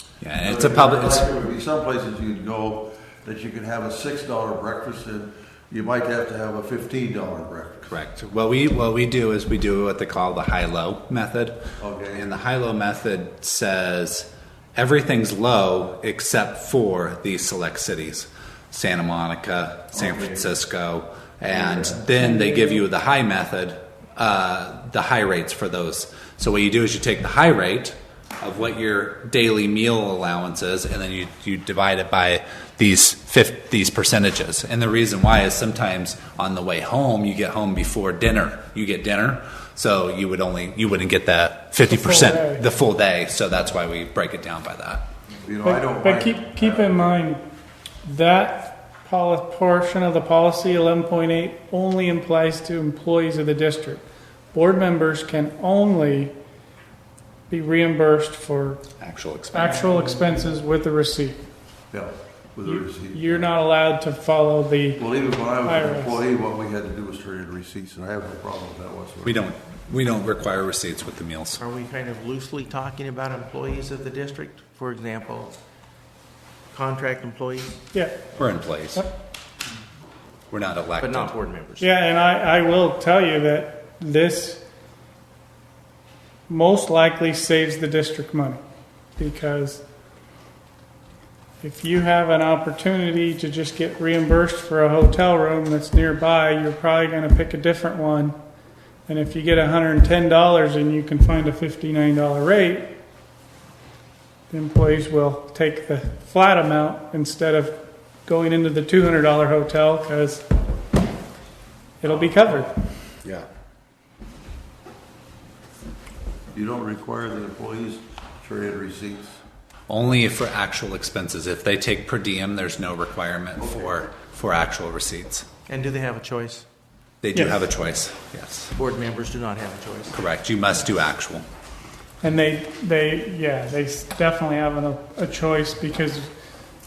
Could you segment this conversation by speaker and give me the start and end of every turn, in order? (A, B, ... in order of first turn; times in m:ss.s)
0:00.2-0:01.3 A
0:00.3-0:08.0 B
0:07.9-0:11.6 A
0:11.8-0:12.3 B
0:12.1-0:45.0 A
0:19.9-0:20.5 B
0:21.5-0:22.1 B
0:22.2-0:22.8 C
0:41.9-0:42.6 C
0:45.4-0:47.3 B
0:45.6-0:47.4 C
0:48.0-0:56.3 C
0:57.5-0:58.8 C
0:59.0-1:00.3 A
0:59.5-1:01.4 C
1:01.9-1:03.6 B
1:02.6-1:06.2 C
1:05.0-1:09.4 B
1:09.2-1:11.6 A
1:11.6-1:15.6 D
1:16.7-1:17.8 D
1:17.9-1:18.4 C
1:18.4-1:19.1 A
1:20.5-1:21.4 A
1:21.0-1:21.9 D
1:21.8-1:24.6 C
1:26.5-1:28.6 C
1:29.2-1:29.8 C
1:31.6-1:38.4 C
1:39.1-1:43.0 C
1:44.5-1:50.4 C
1:52.0-1:52.8 C
1:56.5-1:59.4 B
1:59.9-2:05.5 A
2:03.6-2:04.1 B
2:05.7-2:06.7 D
2:07.2-2:08.7 A
2:08.7-2:10.2 D
2:10.1-2:11.4 A
2:12.2-2:16.3 C